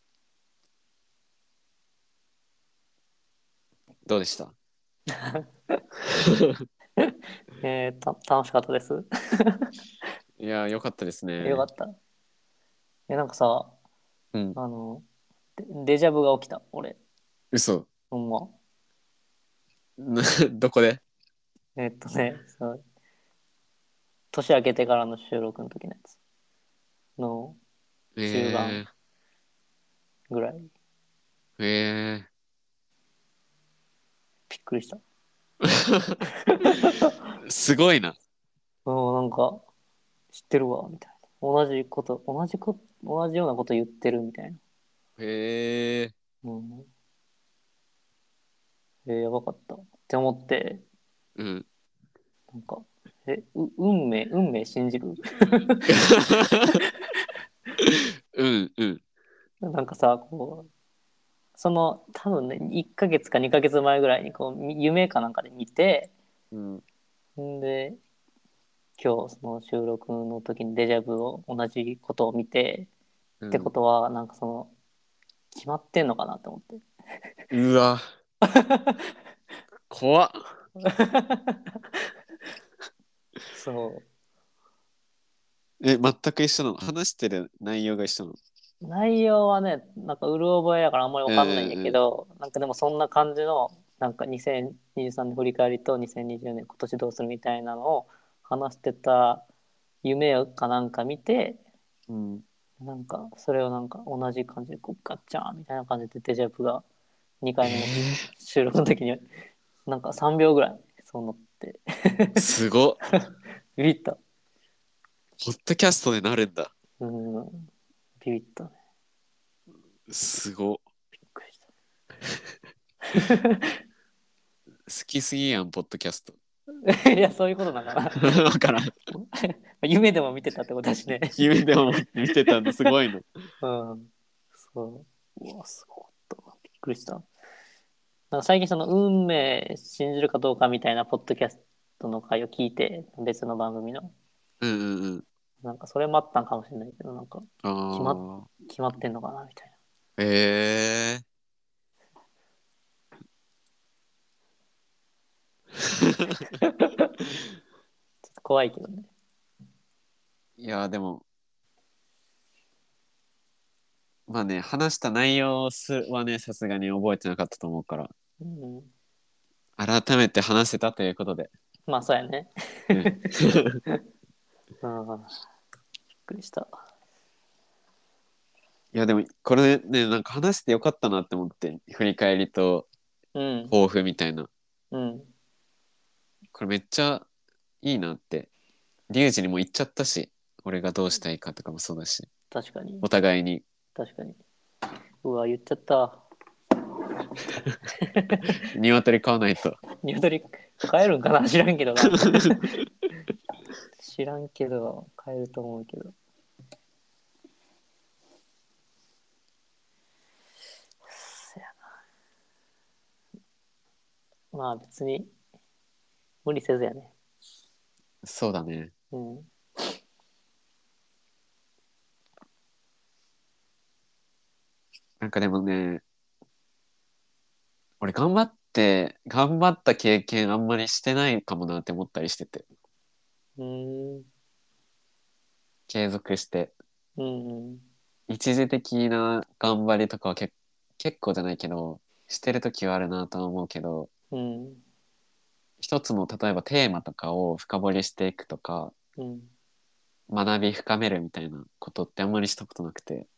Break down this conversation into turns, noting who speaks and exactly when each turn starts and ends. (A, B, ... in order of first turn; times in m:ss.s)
0:04.1-0:04.5 A
0:05.3-0:05.8 B
0:07.0-0:09.7 B
0:10.4-0:11.6 A
0:11.4-0:12.0 B
0:13.1-0:13.7 B
0:14.6-0:15.0 B
0:15.6-0:17.0 B
0:17.5-0:17.9 A
0:18.1-0:18.5 B
0:20.0-0:21.0 A
0:21.8-0:22.8 B
0:24.3-0:26.2 B
0:27.2-0:27.6 B
0:28.2-0:28.9 A
0:28.2-0:28.8 B
0:30.3-0:30.7 B
0:31.6-0:32.3 A
0:34.5-0:35.0 B
0:35.6-0:36.2 A
0:36.5-0:37.1 B
0:37.4-0:38.2 A
0:38.8-0:39.6 B
0:40.3-0:44.6 B
0:45.2-0:46.1 A
0:46.4-0:46.9 B
0:49.0-0:50.8 B
0:51.4-0:51.6 A
0:52.5-0:55.9 B
0:55.9-0:56.8 A
0:57.8-0:59.0 A
0:59.6-1:00.7 B
1:01.6-1:06.1 B
1:06.5-1:06.8 A
1:07.4-1:08.0 B
1:09.0-1:12.9 B
1:13.4-1:13.7 A
1:13.5-1:14.7 B
1:15.5-1:16.8 B
1:17.5-1:18.0 A
1:18.4-1:19.1 B
1:19.9-1:20.4 A
1:20.8-1:21.8 B
1:23.5-1:24.0 B
1:25.8-1:28.4 A
1:28.8-1:39.4 B
1:31.3-1:32.0 A
1:40.0-1:41.6 B
1:42.1-1:42.4 A
1:42.8-1:46.8 B
1:47.4-1:49.3 B
1:47.6-1:48.3 A
1:49.8-1:52.4 B
1:52.4-1:53.0 A
1:53.8-1:54.2 B
1:55.4-1:56.7 A
1:57.0-1:57.7 B
1:58.2-1:58.7 B
2:00.1-2:00.8 A
2:01.3-2:01.6 B
2:03.1-2:03.6 B
2:04.9-2:06.4 A
2:06.8-2:08.4 B
2:08.2-2:08.9 A
2:09.1-2:11.4 B
2:11.3-2:13.3 A
2:13.6-2:14.1 B
2:14.6-2:17.2 B
2:18.3-2:24.1 B
2:24.6-2:25.2 A
2:25.6-2:29.7 B
2:27.6-2:28.5 A
2:30.2-2:31.2 A
2:36.1-2:36.4 A
2:36.6-2:36.9 B
2:38.3-2:39.1 B
2:40.6-2:41.2 A
2:44.3-2:48.1 A
2:48.4-2:48.9 B
2:49.8-2:51.5 A
2:51.9-2:53.3 B
2:52.9-2:53.8 A
2:54.8-2:55.4 B
2:56.3-2:56.7 B
2:58.9-3:02.9 A
3:03.3-3:03.7 B
3:03.7-3:04.5 A
3:04.9-3:05.3 B
3:06.5-3:07.3 A
3:07.8-3:08.5 A
3:09.1-3:12.3 A
3:12.5-3:13.0 B
3:13.0-3:13.6 A
3:13.9-3:14.4 B
3:15.2-3:16.2 B
3:18.1-3:18.6 B
3:18.6-3:19.8 A
3:20.0-3:22.8 B
3:24.0-3:26.1 B
3:31.1-3:31.8 B
3:34.5-3:35.3 B
3:36.4-3:37.1 B
3:38.2-3:38.9 A
3:39.1-3:39.5 B
3:45.2-3:46.0 A
3:48.0-3:52.6 A
3:53.6-3:54.3 B
3:55.9-3:56.7 A
3:57.2-3:57.8 B
3:58.3-4:04.1 A
4:04.3-4:04.8 B
4:05.8-4:08.9 A
4:09.2-4:09.5 B
4:10.3-4:13.3 A